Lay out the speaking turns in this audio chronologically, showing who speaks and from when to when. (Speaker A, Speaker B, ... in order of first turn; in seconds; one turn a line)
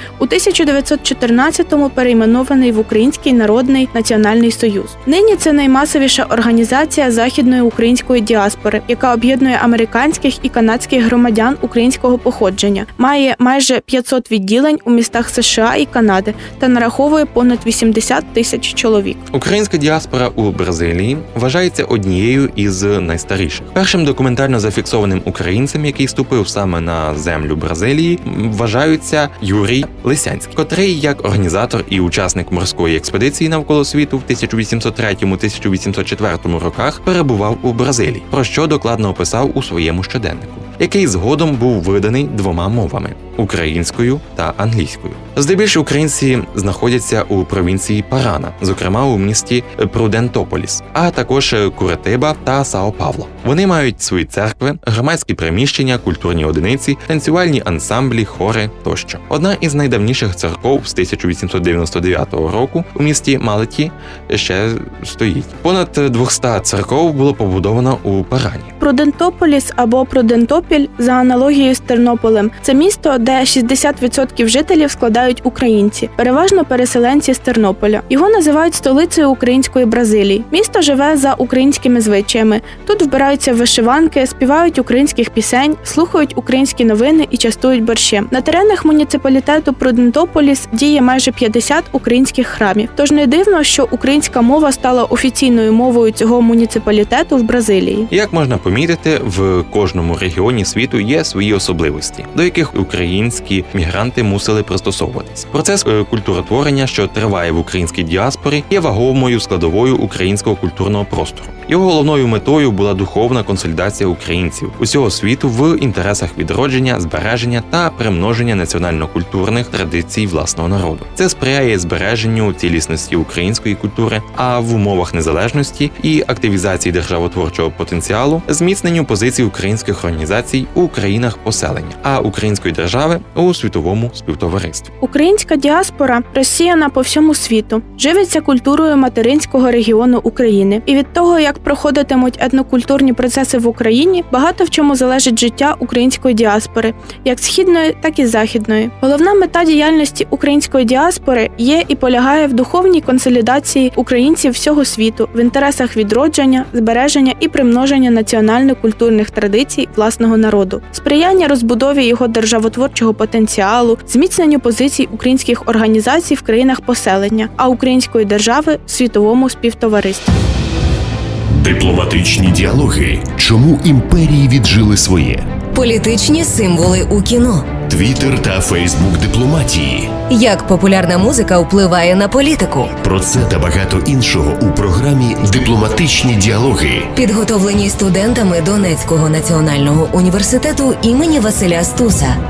Speaker A: 0.2-19.2
Speaker B: 19.3-68.7
Speaker A: 68.8-98.1
Speaker B: 98.1-134.9
Speaker A: 135.0-170.4
Speaker C: 171.5-175.5
Speaker D: 175.7-177.7
Speaker C: 177.9-180.2
Speaker D: 180.3-183.0
Speaker C: 183.0-187.1
Speaker D: 187.2-192.4